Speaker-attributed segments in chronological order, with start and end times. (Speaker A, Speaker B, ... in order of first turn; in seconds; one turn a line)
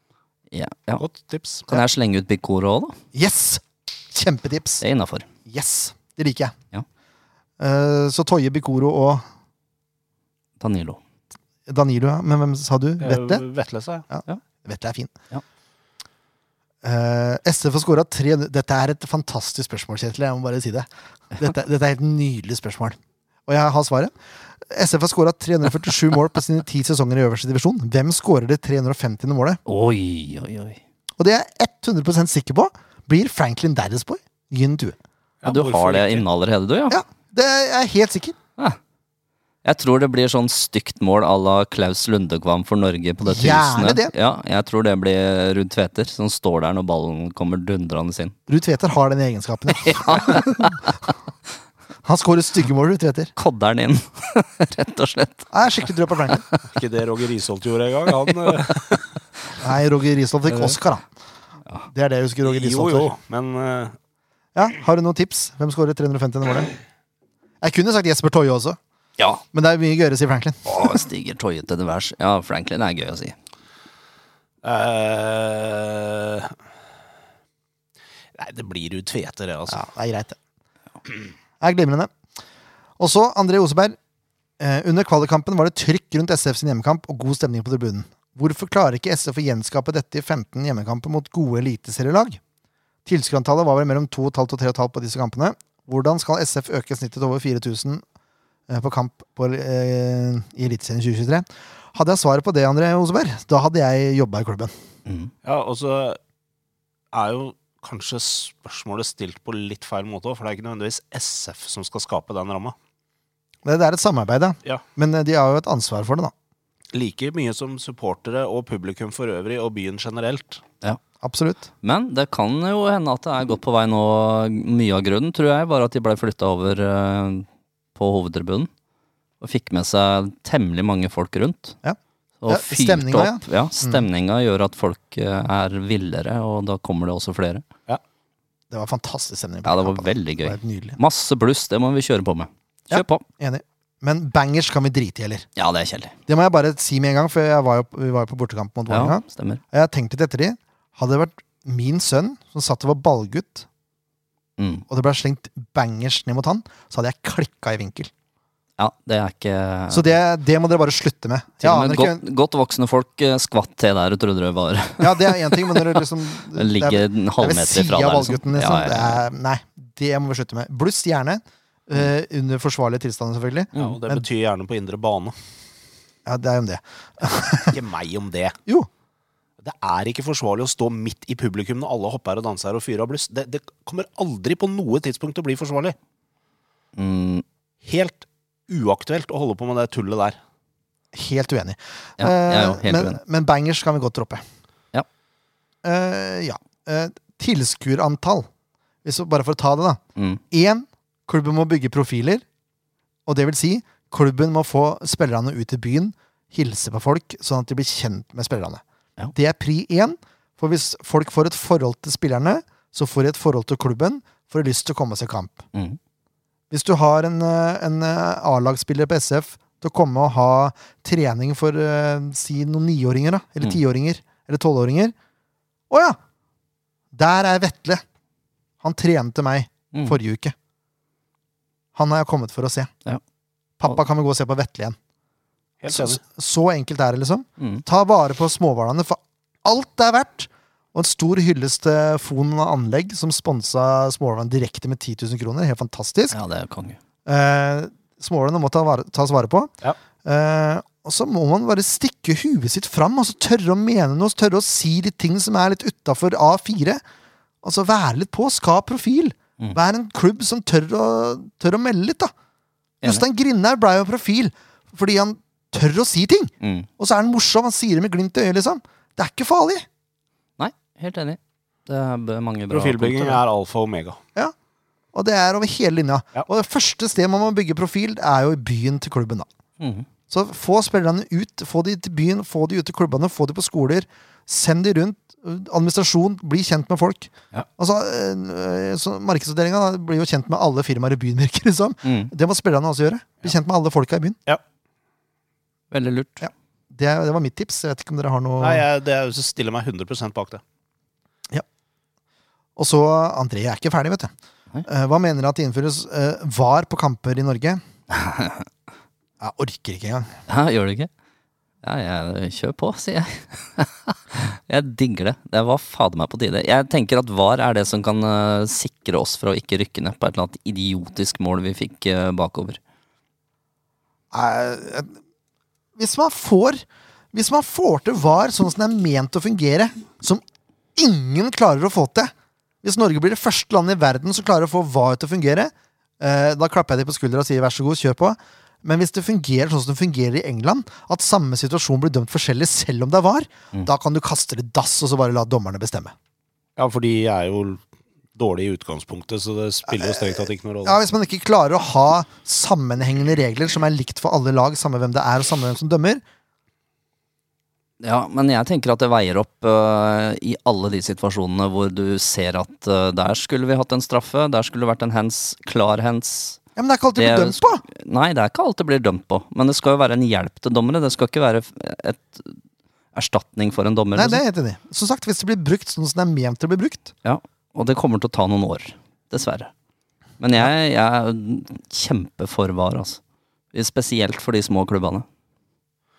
Speaker A: 0.5-1.0
Speaker B: 1.0-1.7
Speaker A: 1.7-3.0
Speaker C: 3.1-4.8
Speaker A: 4.8-5.3
Speaker C: 5.5-6.5
Speaker C: 7.6-9.2
Speaker A: 10.6-11.0
Speaker C: 11.7-13.4
Speaker B: 13.0-14.0
Speaker C: 14.1-15.1
Speaker C: 16.8-24.1
Speaker C: 24.6-29.6
Speaker A: 29.6-30.8
Speaker C: 31.2-35.0
Speaker B: 35.4-36.2
Speaker A: 35.4-37.0
Speaker C: 36.9-38.4
Speaker A: 39.6-48.3
Speaker C: 43.2-44.1
Speaker C: 48.5-50.8
Speaker A: 49.8-50.8
Speaker C: 52.0-53.3
Speaker A: 53.4-55.5
Speaker C: 55.5-56.4
Speaker A: 56.3-56.6
Speaker B: 56.7-59.1
Speaker A: 58.3-58.6
Speaker C: 59.6-61.0
Speaker C: 61.9-63.1
Speaker B: 62.4-64.0
Speaker C: 64.5-66.7
Speaker C: 67.6-68.8
Speaker C: 69.5-70.9
Speaker A: 70.7-73.3
Speaker B: 74.6-76.5
Speaker B: 78.3-79.8
Speaker C: 79.7-80.4
Speaker C: 81.6-82.1
Speaker C: 83.0-84.0
Speaker C: 84.6-92.4
Speaker C: 93.0-98.0
Speaker C: 98.7-104.7
Speaker A: 105.0-105.3
Speaker B: 105.4-106.2
Speaker B: 107.1-112.7
Speaker C: 113.6-116.3
Speaker B: 116.9-120.6
Speaker C: 121.2-121.7
Speaker A: 121.8-128.7
Speaker A: 129.4-131.8
Speaker C: 131.8-134.1
Speaker A: 132.4-137.6
Speaker C: 138.7-141.0
Speaker A: 139.6-143.2
Speaker C: 142.9-145.4
Speaker A: 145.6-146.1
Speaker C: 146.3-153.7
Speaker A: 148.9-149.6
Speaker A: 154.6-154.8
Speaker C: 154.9-158.1
Speaker A: 158.8-160.1
Speaker C: 159.9-162.2
Speaker A: 161.6-169.2
Speaker C: 165.0-174.2
Speaker B: 173.8-175.3
Speaker C: 176.2-177.8
Speaker B: 177.7-178.6
Speaker B: 179.6-185.9
Speaker A: 186.9-187.4
Speaker B: 187.8-190.4
Speaker C: 191.1-194.4
Speaker A: 192.2-193.2
Speaker C: 195.8-198.5
Speaker C: 199.0-200.0
Speaker A: 200.2-200.4
Speaker C: 200.5-202.4
Speaker C: 203.2-208.8
Speaker C: 209.3-215.6
Speaker C: 216.7-225.1
Speaker C: 225.9-226.2
Speaker C: 227.1-228.0
Speaker C: 228.8-230.5
Speaker C: 231.9-232.9
Speaker C: 233.8-234.9
Speaker B: 235.8-236.2
Speaker C: 235.9-246.4
Speaker A: 237.6-237.8
Speaker A: 246.3-247.0
Speaker C: 247.2-249.7
Speaker C: 250.2-257.0
Speaker C: 257.6-262.3
Speaker C: 263.0-269.8
Speaker A: 266.6-266.9
Speaker A: 270.6-273.4
Speaker B: 272.7-274.2
Speaker C: 275.1-279.5
Speaker A: 279.8-280.1
Speaker C: 280.3-294.4
Speaker A: 292.0-292.3
Speaker A: 295.9-296.5
Speaker C: 296.4-298.8
Speaker B: 298.6-300.6
Speaker C: 302.8-304.3
Speaker C: 304.8-307.8
Speaker A: 308.1-308.6
Speaker C: 309.4-310.3
Speaker A: 310.5-311.1
Speaker A: 311.8-322.8
Speaker C: 324.3-325.2
Speaker C: 326.0-330.4
Speaker C: 330.9-332.3
Speaker C: 332.8-346.1
Speaker B: 346.8-347.8
Speaker B: 348.3-351.0
Speaker C: 349.9-356.2
Speaker A: 358.0-366.6
Speaker C: 366.8-367.8
Speaker A: 367.1-372.6
Speaker A: 373.1-374.4
Speaker C: 374.1-377.1
Speaker A: 377.2-379.7
Speaker A: 380.4-383.2
Speaker A: 383.7-385.2